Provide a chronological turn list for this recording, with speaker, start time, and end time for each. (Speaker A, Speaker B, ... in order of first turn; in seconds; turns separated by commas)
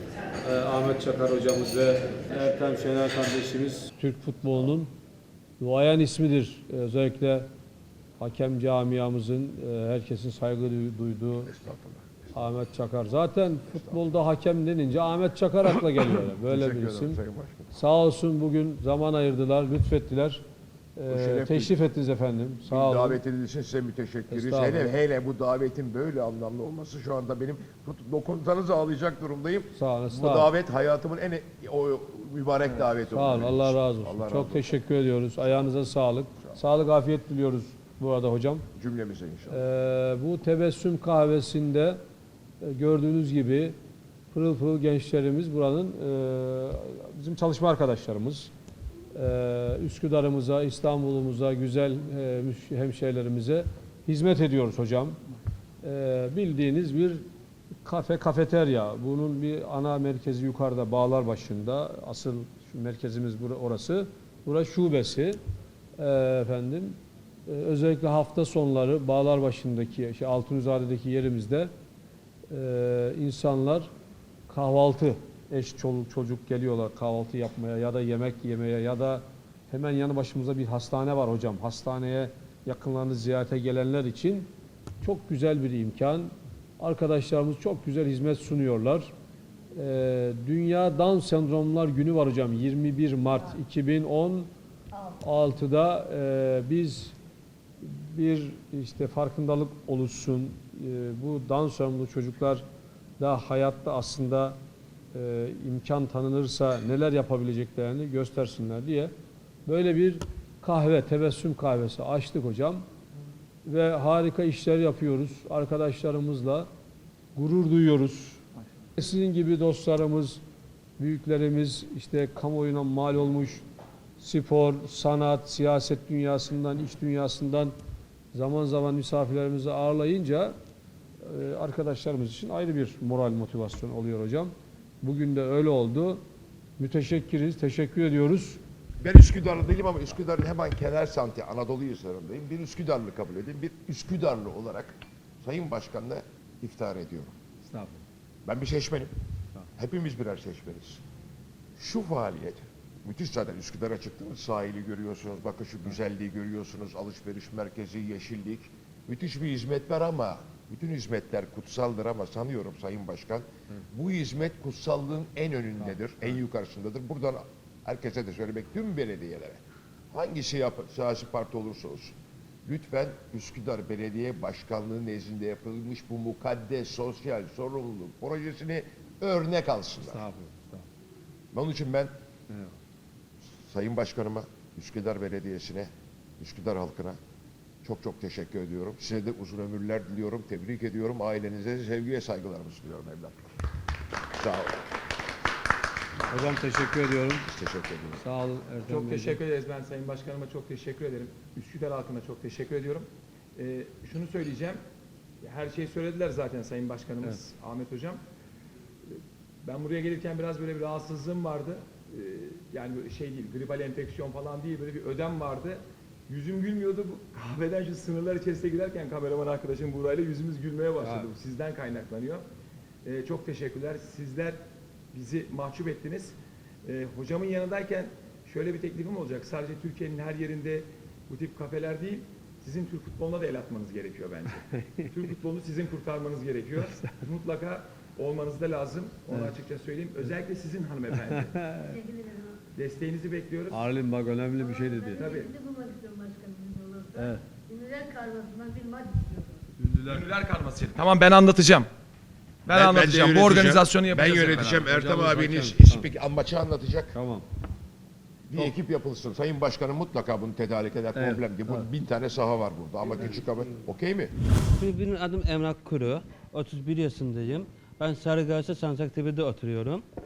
Speaker A: 0.4-4.9, Speaker A: 5.6-7.5, Speaker A: 8.2-11.5, Speaker B: 11.4-12.3, Speaker A: 12.3-17.2, Speaker B: 13.7-14.0, Speaker B: 15.9-17.7, Speaker A: 17.7-20.4, Speaker A: 21.0-23.2, Speaker B: 21.1-21.8, Speaker B: 22.7-34.7, Speaker A: 24.3-24.9, Speaker A: 29.7-30.5, Speaker A: 33.1-38.6, Speaker B: 38.7-39.6, Speaker A: 39.5-42.0, Speaker A: 42.6-43.7, Speaker A: 44.3-48.5, Speaker A: 49.1-55.2, Speaker A: 55.8-57.2, Speaker A: 57.8-65.4, Speaker A: 66.0-71.7, Speaker A: 72.5-73.9, Speaker A: 74.5-84.5, Speaker A: 85.0-89.1, Speaker A: 89.7-94.5, Speaker A: 95.2-97.1, Speaker A: 97.8-102.6, Speaker A: 103.2-104.6, Speaker A: 105.1-109.1, Speaker A: 109.7-112.8, Speaker A: 113.6-116.7, Speaker A: 117.3-118.4, Speaker A: 119.0-120.4, Speaker A: 121.0-123.6, Speaker A: 124.2-127.7, Speaker A: 128.3-130.5, Speaker A: 131.2-136.2, Speaker A: 136.8-138.6, Speaker B: 139.0-147.3, Speaker A: 147.7-147.9, Speaker B: 148.4-149.1, Speaker B: 149.8-151.0, Speaker B: 151.8-169.6, Speaker B: 170.1-172.1, Speaker B: 172.7-180.2, Speaker A: 180.0-180.8, Speaker B: 181.5-182.1, Speaker B: 183.6-187.2, Speaker B: 187.8-193.5, Speaker B: 194.4-194.8, Speaker A: 196.3-197.4, Speaker B: 197.5-198.2, Speaker A: 198.2-199.4, Speaker C: 198.9-204.8, Speaker C: 205.4-208.2, Speaker C: 209.6-222.4, Speaker A: 221.0-221.3, Speaker C: 223.0-224.6, Speaker C: 225.1-241.5, Speaker A: 241.1-241.9, Speaker C: 242.7-243.8, Speaker A: 243.7-245.3, Speaker C: 245.2-245.5, Speaker D: 245.3-247.1, Speaker A: 247.1-247.4, Speaker D: 247.7-249.4, Speaker A: 249.8-250.3, Speaker C: 250.1-251.9, Speaker C: 252.7-254.8, Speaker B: 252.7-257.1, Speaker A: 254.7-256.1, Speaker A: 257.1-257.4, Speaker B: 258.5-264.3, Speaker A: 261.1-261.9, Speaker E: 264.7-270.0